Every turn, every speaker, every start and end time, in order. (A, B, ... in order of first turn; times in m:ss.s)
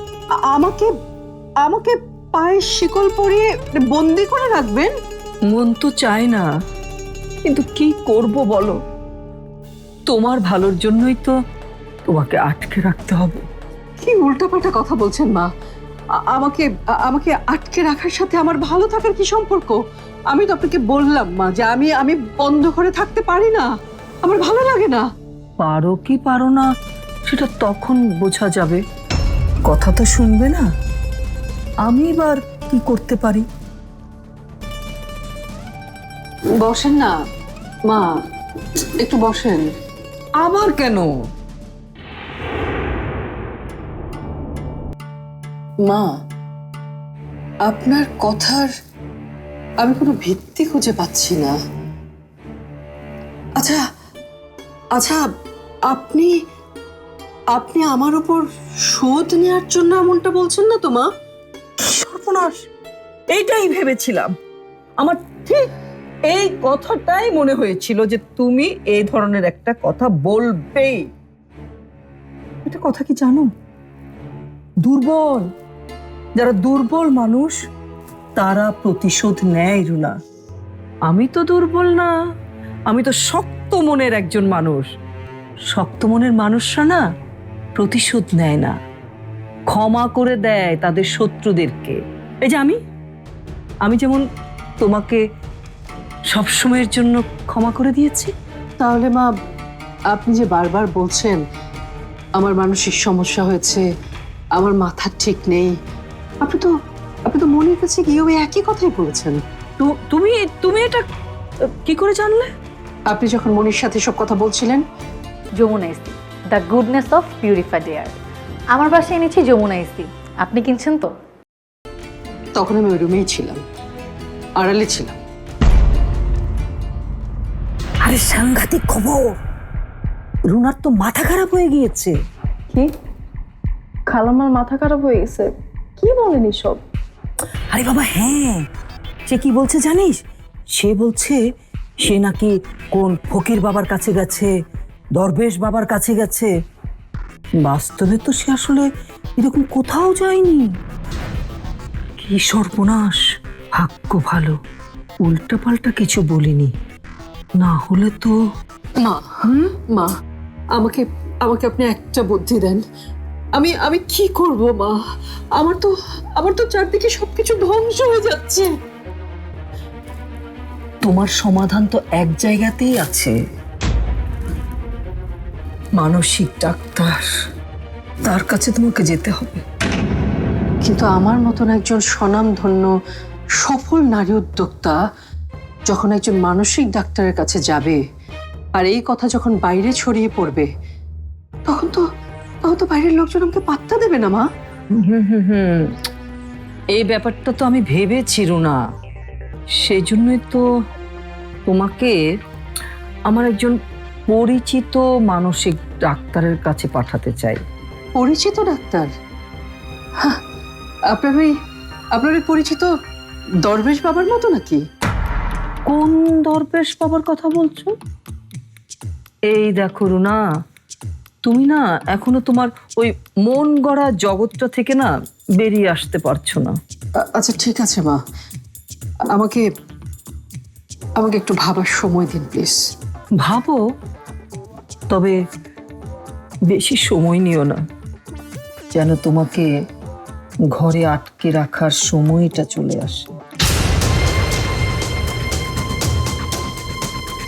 0:00.5-0:00.9 A
0:01.6-0:04.9 A
0:05.5-0:06.4 B
0:07.5-0:08.8 B
0:10.1-0:11.3 B
0:12.1-0:13.4 B
0:14.0-0:15.5 A
0:16.3-0:23.7 A
0:24.2-0:25.1 A
0:25.6-0:26.7 B
0:27.3-0:28.8 B
0:29.7-0:30.6 B
0:31.8-0:33.4 B
0:36.6-0:37.1 A
0:37.9-0:38.2 A
0:39.0-0:39.7 A
0:40.4-0:41.1 B
0:47.6-0:48.7 A
0:49.8-0:51.6 A
0:55.0-0:55.2 A
0:55.9-0:56.3 A
0:57.5-1:01.1 A
1:01.8-1:02.7 B
1:03.3-1:04.3 B
1:05.0-1:05.7 B
1:06.3-1:11.1 B
1:12.6-1:13.5 B
1:14.8-1:15.5 B
1:16.4-1:17.6 B
1:18.4-1:20.2 B
1:21.1-1:22.1 B
1:22.9-1:24.9 B
1:25.7-1:27.0 B
1:27.8-1:28.8 B
1:29.7-1:32.8 B
1:33.8-1:34.2 B
1:34.8-1:35.2 B
1:36.3-1:38.3 B
1:38.8-1:39.3 A
1:40.1-1:41.4 A
1:42.4-1:43.8 A
1:44.6-1:45.8 A
1:46.4-1:46.7 A
1:47.3-1:49.4 A
1:49.8-1:51.0 B
1:51.8-1:52.5 B
1:53.1-1:54.8 A
1:55.6-1:58.2 C
1:58.7-2:01.1 C
2:02.6-2:03.6 A
2:04.6-2:05.2 A
2:08.0-2:09.2 B
2:10.5-2:12.1 B
2:14.1-2:16.8 D
2:17.7-2:18.6 B
2:19.3-2:20.2 B
2:20.8-2:21.4 B
2:22.0-2:24.5 B
2:25.2-2:26.5 B
2:27.6-2:28.9 B
2:29.4-2:30.7 B
2:32.2-2:33.2 B
2:33.8-2:34.6 B
2:35.2-2:36.7 B
2:37.6-2:38.4 B
2:39.0-2:40.1 A
2:40.7-2:42.8 A
2:43.6-2:45.0 A
2:45.6-2:48.7 A
2:51.0-2:53.3 B
2:56.0-2:57.2 B
2:58.3-2:59.6 B
3:00.8-3:02.9 A
3:03.6-3:05.0 A
3:05.9-3:08.0 A
3:08.8-3:10.7 A
3:11.7-3:12.0 A
3:12.6-3:14.5 A
3:15.0-3:15.9 B
3:16.9-3:18.8 B
3:19.8-3:20.6 B
3:21.7-3:22.2 B
3:23.3-3:23.8 B
3:24.3-3:27.6 B
3:28.2-3:29.1 A
3:31.1-3:31.5 A
3:32.1-3:32.9 A
3:33.6-3:34.8 A
3:35.9-3:37.9 B
3:39.5-3:40.4 B
3:41.4-3:46.7 B
3:47.3-3:48.2 A
3:49.3-3:49.6 A
3:51.2-3:52.8 A
3:53.4-3:53.8 B
3:56.7-3:57.8 B
3:59.0-3:59.7 B
4:00.7-4:03.4 B